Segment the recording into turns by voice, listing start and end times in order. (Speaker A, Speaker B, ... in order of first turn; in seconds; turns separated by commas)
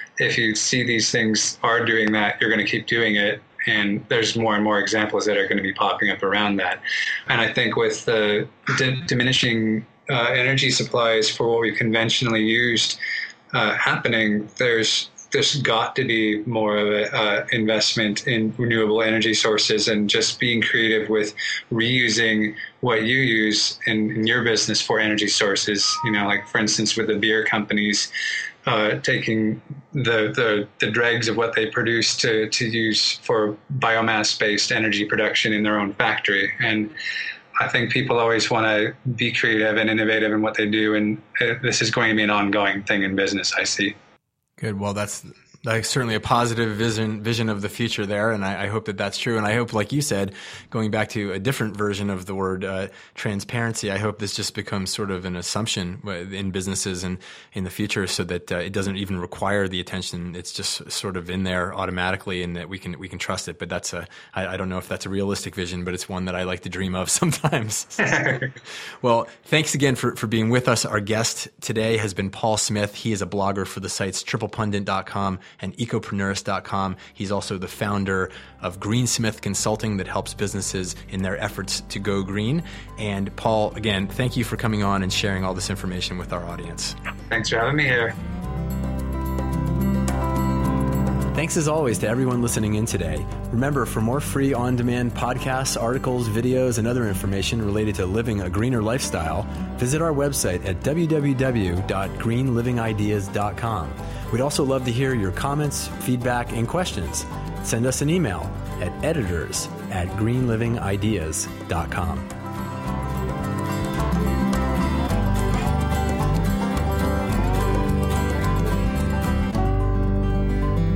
Speaker A: 0.2-13.0, Speaker A: 13.5-28.1, Speaker A: 28.6-37.0, Speaker A: 37.6-44.0, Speaker B: 44.6-68.4, Speaker A: 68.0-68.5, Speaker B: 69.0-87.0, Speaker A: 87.3-88.2, Speaker B: 91.3-112.3